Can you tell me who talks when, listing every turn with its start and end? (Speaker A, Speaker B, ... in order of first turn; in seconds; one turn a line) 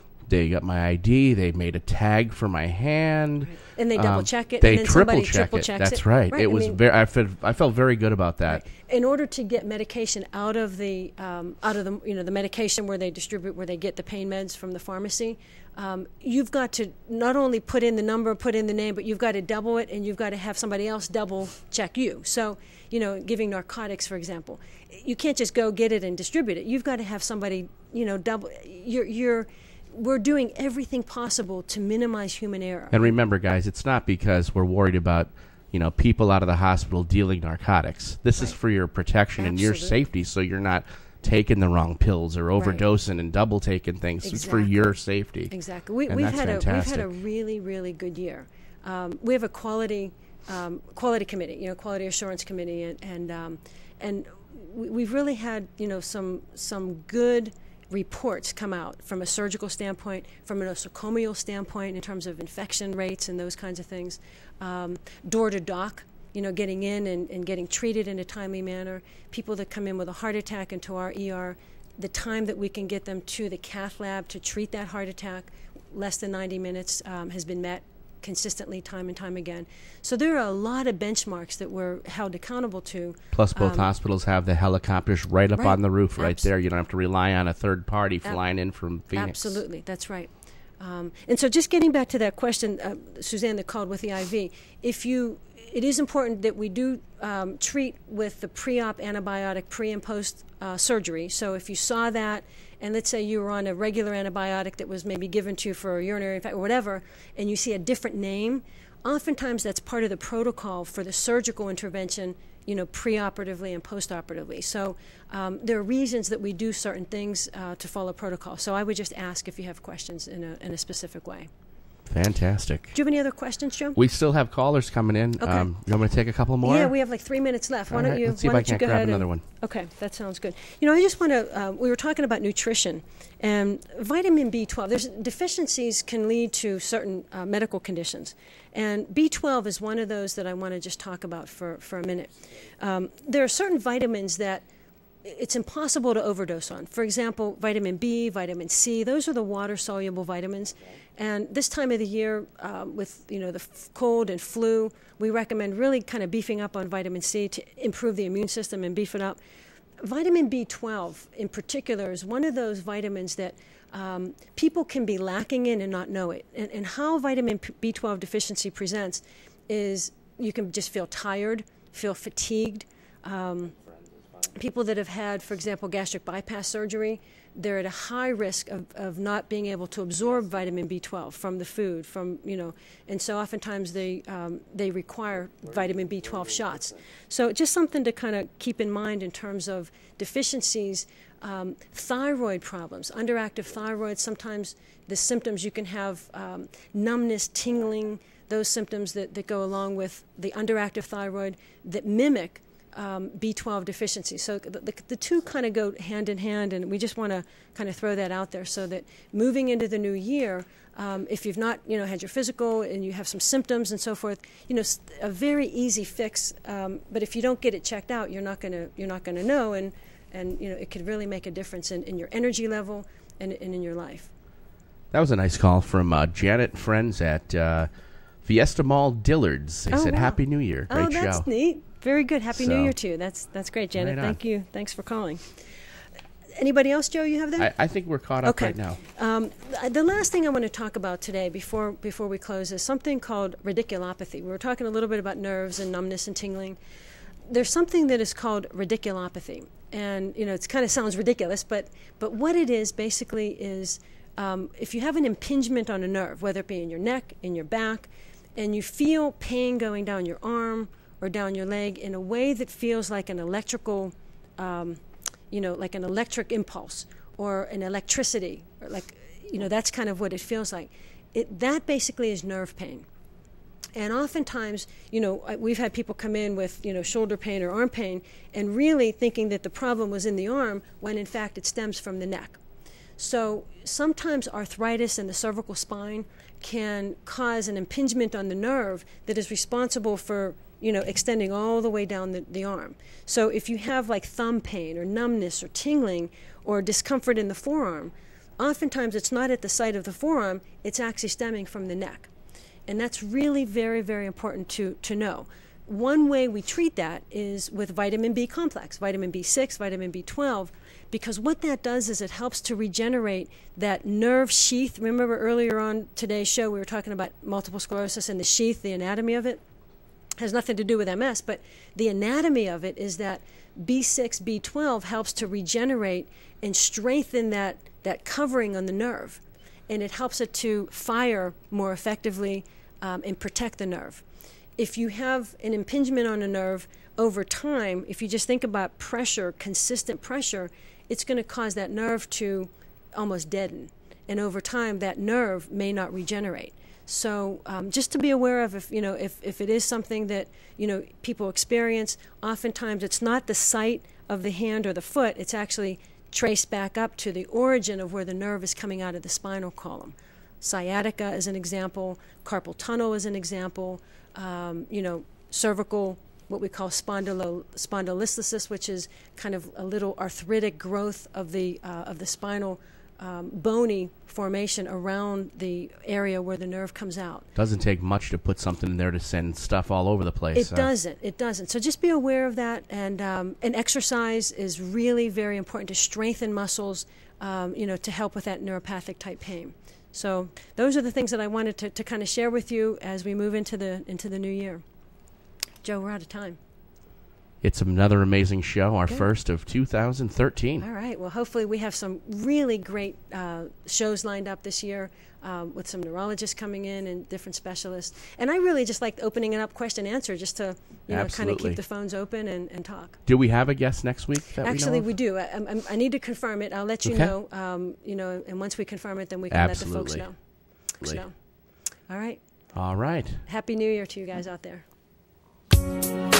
Speaker A: 0.3-8.6
Speaker B: 3.5-6.8
Speaker B: 8.5-33.1
Speaker A: 32.9-45.5
Speaker B: 39.4-40.0
Speaker B: 42.6-42.8
Speaker B: 44.2-44.7
Speaker B: 45.5-83.9
Speaker A: 46.1-47.1
Speaker A: 83.3-89.6
Speaker B: 85.6-86.5
Speaker B: 89.1-121.5
Speaker A: 122.1-123.0
Speaker B: 122.9-124.0
Speaker A: 124.0-126.9
Speaker B: 125.4-125.7
Speaker B: 126.6-144.7
Speaker A: 127.9-129.4
Speaker B: 145.2-159.4
Speaker B: 160.0-173.8
Speaker B: 174.4-224.3
Speaker A: 225.1-227.9
Speaker A: 228.4-231.5
Speaker B: 229.9-235.4
Speaker A: 232.5-232.9
Speaker A: 234.0-234.4
Speaker B: 236.6-237.7
Speaker A: 237.6-239.0
Speaker B: 238.4-246.8
Speaker B: 247.5-273.1
Speaker B: 274.0-282.6
Speaker B: 283.2-302.3
Speaker B: 302.9-319.6
Speaker B: 320.4-334.2
Speaker B: 334.8-377.5
Speaker A: 377.6-380.9
Speaker B: 380.6-394.8
Speaker B: 395.8-396.6
Speaker A: 397.6-400.9
Speaker B: 400.8-413.2
Speaker A: 411.1-411.8
Speaker A: 413.3-415.1
Speaker B: 414.6-420.4
Speaker A: 417.1-417.3
Speaker A: 419.5-420.3
Speaker B: 421.0-421.3
Speaker B: 422.1-422.4
Speaker A: 422.7-423.4
Speaker B: 423.5-424.9